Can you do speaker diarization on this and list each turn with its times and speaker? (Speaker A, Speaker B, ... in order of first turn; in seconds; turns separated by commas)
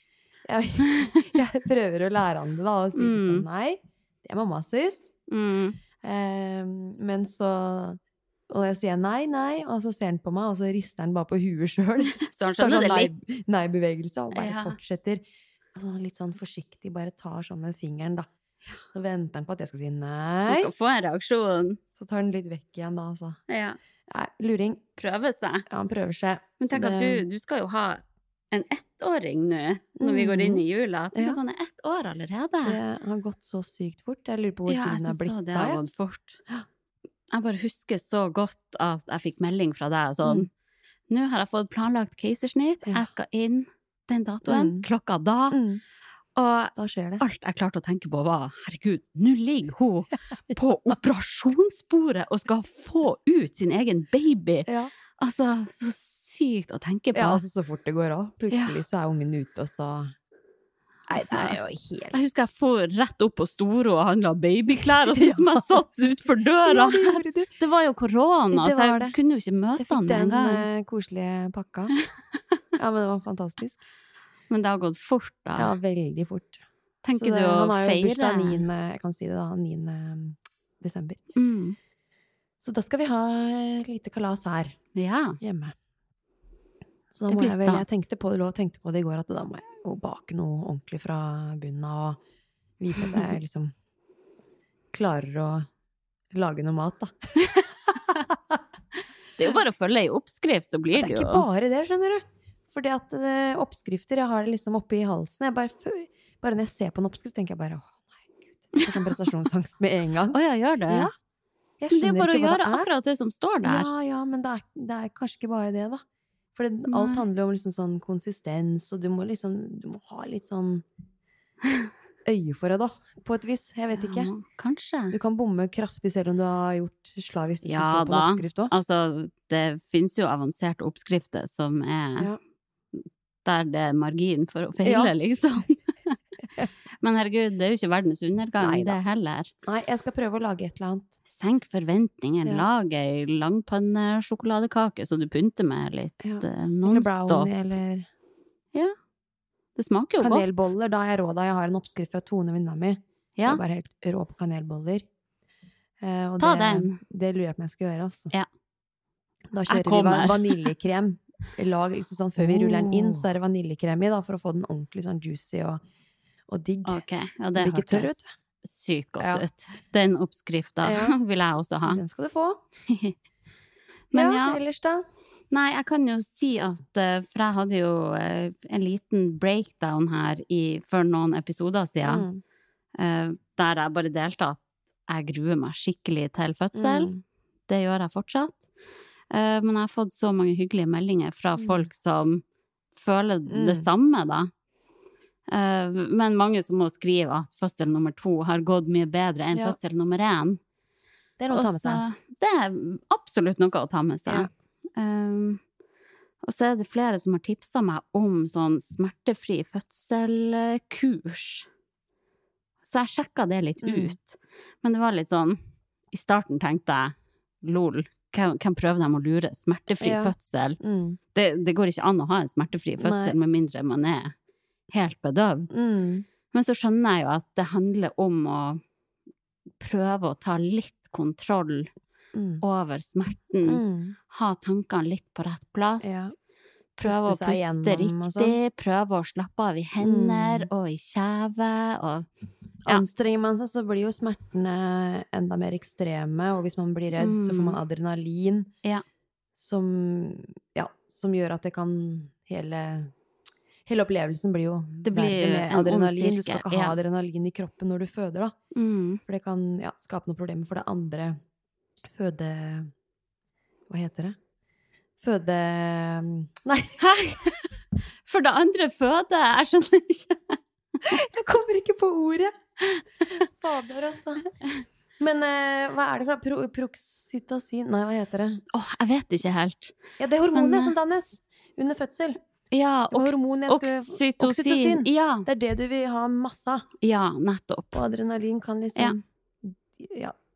Speaker A: 0.5-5.2, Speaker B: 3.0-3.5, Speaker B: 5.3-5.8, Speaker A: 6.0-15.2, Speaker B: 12.0-13.1, Speaker B: 14.3-14.8, Speaker A: 15.7-18.3, Speaker A: 18.9-20.7, Speaker B: 20.5-21.8, Speaker A: 22.0-23.4, Speaker B: 23.5-23.8, Speaker A: 24.1-24.8, Speaker B: 25.0-25.7, Speaker A: 25.7-27.3, Speaker B: 26.6-32.8, Speaker A: 30.0-30.6, Speaker A: 32.6-35.8, Speaker B: 34.7-36.4, Speaker B: 37.3-40.5, Speaker B: 41.1-45.6, Speaker A: 44.5-44.9, Speaker A: 45.5-45.8, Speaker B: 46.4-54.7, Speaker A: 46.8-47.2, Speaker A: 54.7-54.9, Speaker B: 55.2-57.4, Speaker A: 57.1-60.1, Speaker B: 58.5-58.8, Speaker A: 61.1-62.5, Speaker B: 61.1-61.6, Speaker B: 62.1-70.7, Speaker A: 65.0-65.8, Speaker A: 66.6-67.5, Speaker A: 68.5-69.2, Speaker A: 69.8-71.9, Speaker A: 72.8-73.8, Speaker B: 74.5-75.8, Speaker A: 75.6-81.2, Speaker B: 77.0-78.7, Speaker B: 81.3-81.8, Speaker A: 82.6-84.8, Speaker B: 85.0-85.4, Speaker A: 85.4-85.8, Speaker A: 87.1-92.2, Speaker B: 87.3-87.8, Speaker A: 92.8-93.7, Speaker B: 93.0-93.3, Speaker A: 94.9-95.7, Speaker A: 96.3-97.1, Speaker B: 99.4-101.5, Speaker A: 100.9-110.4, Speaker B: 108.8-109.0, Speaker B: 110.3-111.1, Speaker A: 111.8-112.9, Speaker B: 111.9-113.9, Speaker A: 113.6-116.0, Speaker A: 116.5-120.8, Speaker B: 116.9-117.2, Speaker A: 122.2-124.3, Speaker B: 123.9-125.2, Speaker A: 125.1-128.7, Speaker B: 127.6-132.3, Speaker B: 133.4-136.2, Speaker A: 134.8-135.1, Speaker B: 137.0-139.5, Speaker A: 138.6-139.0, Speaker A: 139.7-141.2, Speaker B: 141.3-147.5, Speaker A: 146.2-148.1, Speaker B: 149.8-150.6, Speaker A: 150.2-155.1, Speaker B: 153.4-153.6, Speaker A: 156.0-158.3, Speaker B: 156.4-157.0, Speaker A: 159.5-165.8, Speaker B: 159.7-160.7, Speaker B: 162.4-163.2, Speaker A: 166.5-167.0, Speaker B: 166.8-172.0, Speaker A: 167.6-168.4, Speaker A: 169.2-169.5, Speaker A: 170.8-171.2, Speaker A: 171.9-172.6, Speaker B: 172.9-173.2, Speaker B: 174.1-174.6, Speaker A: 174.1-175.1, Speaker B: 175.5-182.3, Speaker A: 182.0-182.4, Speaker B: 183.0-187.1, Speaker A: 186.8-187.2, Speaker B: 187.7-188.7, Speaker B: 189.3-192.4, Speaker A: 191.6-191.9, Speaker B: 192.9-194.5, Speaker A: 193.5-193.9, Speaker B: 195.5-200.6, Speaker A: 201.4-202.0, Speaker B: 201.5-205.6, Speaker B: 206.4-211.7, Speaker B: 212.8-215.6, Speaker A: 213.8-214.2, Speaker B: 216.1-220.8, Speaker A: 220.0-221.2, Speaker B: 221.3-224.3, Speaker A: 223.0-223.3, Speaker B: 224.9-225.7, Speaker A: 225.7-226.3, Speaker B: 226.5-228.8, Speaker B: 229.8-231.9, Speaker A: 232.3-232.6, Speaker B: 232.6-236.3, Speaker A: 233.7-234.2, Speaker A: 236.0-236.3, Speaker B: 237.0-242.3, Speaker A: 237.0-238.6, Speaker A: 240.0-240.7, Speaker A: 242.8-248.7, Speaker B: 247.2-247.8, Speaker A: 249.6-253.1, Speaker A: 253.9-258.6, Speaker B: 255.0-257.0, Speaker B: 258.7-259.2, Speaker A: 259.3-261.4, Speaker A: 262.1-262.9, Speaker A: 263.9-264.4, Speaker A: 265.2-267.3, Speaker B: 267.0-267.6, Speaker B: 268.3-270.6, Speaker A: 271.0-272.5, Speaker A: 273.3-274.5, Speaker A: 275.2-278.6, Speaker B: 278.7-279.9, Speaker A: 280.2-282.4, Speaker B: 280.5-280.9, Speaker B: 282.7-285.5, Speaker A: 283.1-286.9, Speaker B: 287.0-288.0, Speaker A: 287.9-290.4